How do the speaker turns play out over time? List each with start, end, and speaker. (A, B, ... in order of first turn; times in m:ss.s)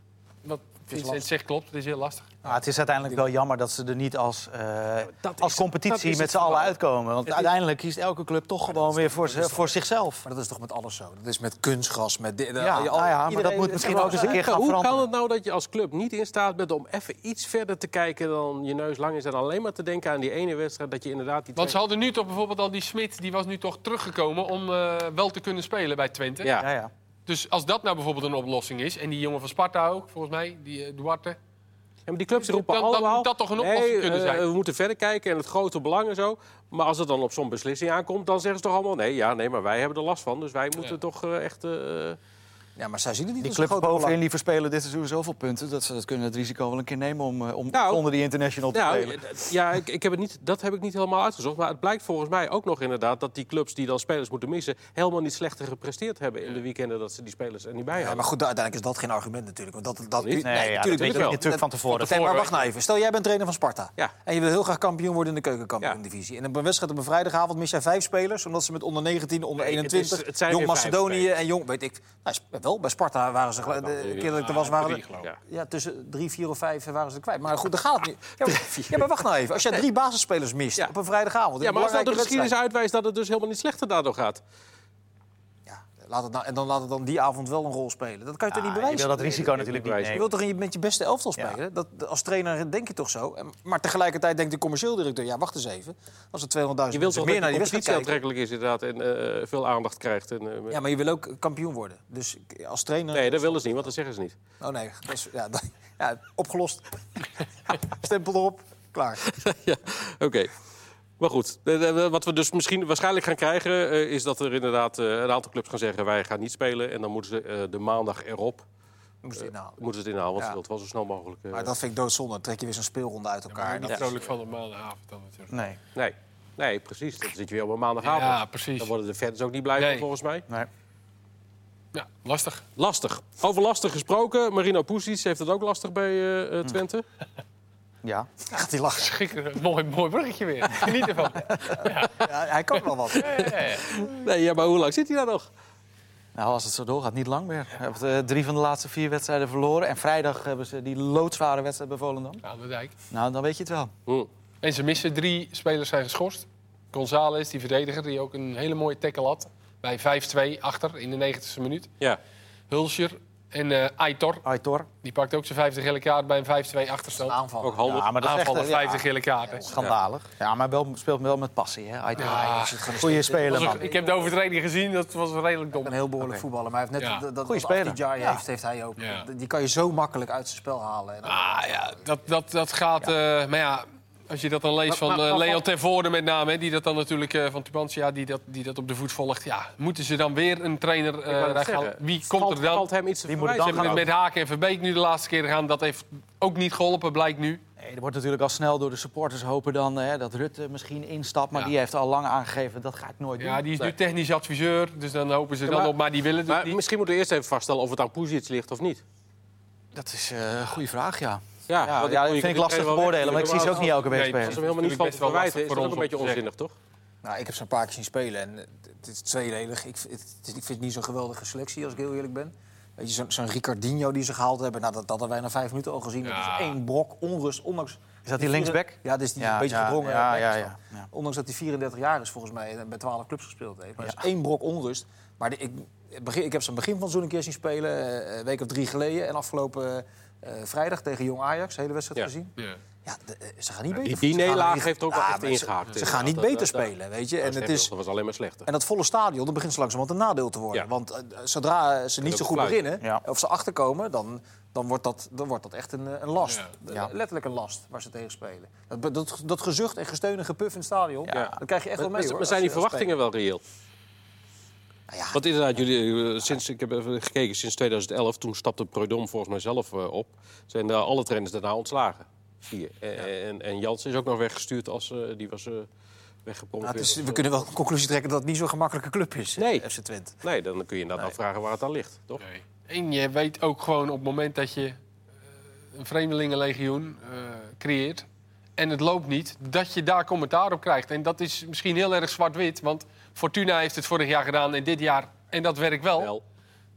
0:00.4-0:02.3 A
0:00.9-0:01.3 B
0:02.4-0:03.2 B
0:02.4-0:10.2 C
0:05.2-0:06.8 D
0:08.7-0:14.4 B
0:12.6-0:15.0 C
0:13.8-0:21.8 D
0:21.6-0:26.5 A
0:26.4-0:26.7 D
0:26.6-0:26.9 C
0:27.2-0:31.4 A
0:32.1-0:42.2 D
0:32.3-0:34.4 A
0:42.8-0:44.2 B
0:43.4-0:49.2 C
0:47.7-0:48.0 D
0:48.7-0:58.2 D
0:57.9-1:22.5 B
1:00.2-1:01.4 D
1:00.4-1:02.4 C
1:02.0-1:02.6 A
1:09.6-1:11.3 D
1:13.6-1:14.4 D
1:14.2-1:15.3 A
1:18.4-1:19.2 D
1:21.6-1:24.4 D
1:25.7-1:29.6 B
1:28.5-1:30.3 C
1:29.4-1:30.2 D
1:30.1-1:38.2 B
1:36.9-1:40.8 D
1:40.7-1:43.9 B
1:43.1-1:44.3 D
1:44.6-1:49.3 B
1:49.2-1:50.5 D
1:51.2-1:58.6 D
1:59.2-1:59.8 B
1:59.4-2:01.7 D
2:01.5-2:04.2 B
2:03.5-2:05.7 A
2:05.5-2:05.8 C
2:05.9-2:10.4 D
2:08.0-2:08.9 A
2:09.8-2:10.0 A
2:11.9-2:12.6 A
2:12.8-2:17.0 D
2:18.0-2:18.3 C
2:18.5-2:19.1 B
2:19.0-2:22.3 A
2:21.8-2:23.6 B
2:23.1-2:25.5 D
2:23.2-2:23.8 A
2:26.3-2:32.4 C
2:32.4-2:32.9 A
2:33.1-2:33.9 C
2:34.6-2:41.9 A
2:42.7-2:44.4 A
2:44.4-2:44.9 C
2:45.0-2:47.4 A
2:47.2-2:48.0 B
2:47.6-2:48.1 D
2:47.8-2:49.1 C
2:48.2-2:49.7 A
2:49.6-2:53.8 C
2:52.1-2:54.3 B
2:52.2-2:56.0 A
2:55.7-3:02.1 B
2:57.0-2:57.2 A
2:57.4-2:58.4 C
2:59.0-2:59.3 A
3:01.2-3:12.9 A
3:04.9-3:05.6 B
3:11.3-3:14.1 D
3:13.3-3:14.1 C
3:13.6-3:17.6 A
3:17.8-3:23.6 C
3:23.4-3:26.8 A
3:25.7-3:26.0 D
3:26.5-3:29.0 D
3:29.9-3:34.6 C
3:31.7-3:36.7 D
3:34.0-3:36.4 A
3:37.2-4:02.5 B
3:46.2-3:46.8 A
3:48.2-3:51.1 C
3:54.0-3:54.2 C
4:03.0-4:07.9 B
4:03.9-4:08.7 D
4:08.7-4:23.1 B
4:12.2-4:12.8 D
4:16.4-4:16.7 A
4:21.2-4:21.6 C
4:21.3-4:23.6 D
4:25.1-4:25.4 B
4:25.3-4:35.9 D
4:36.4-4:37.4 D
4:36.8-4:40.3 B
4:39.6-4:39.9 D
4:40.4-4:42.4 D
4:42.4-4:45.0 A
4:45.9-4:48.2 A
4:48.8-4:56.3 A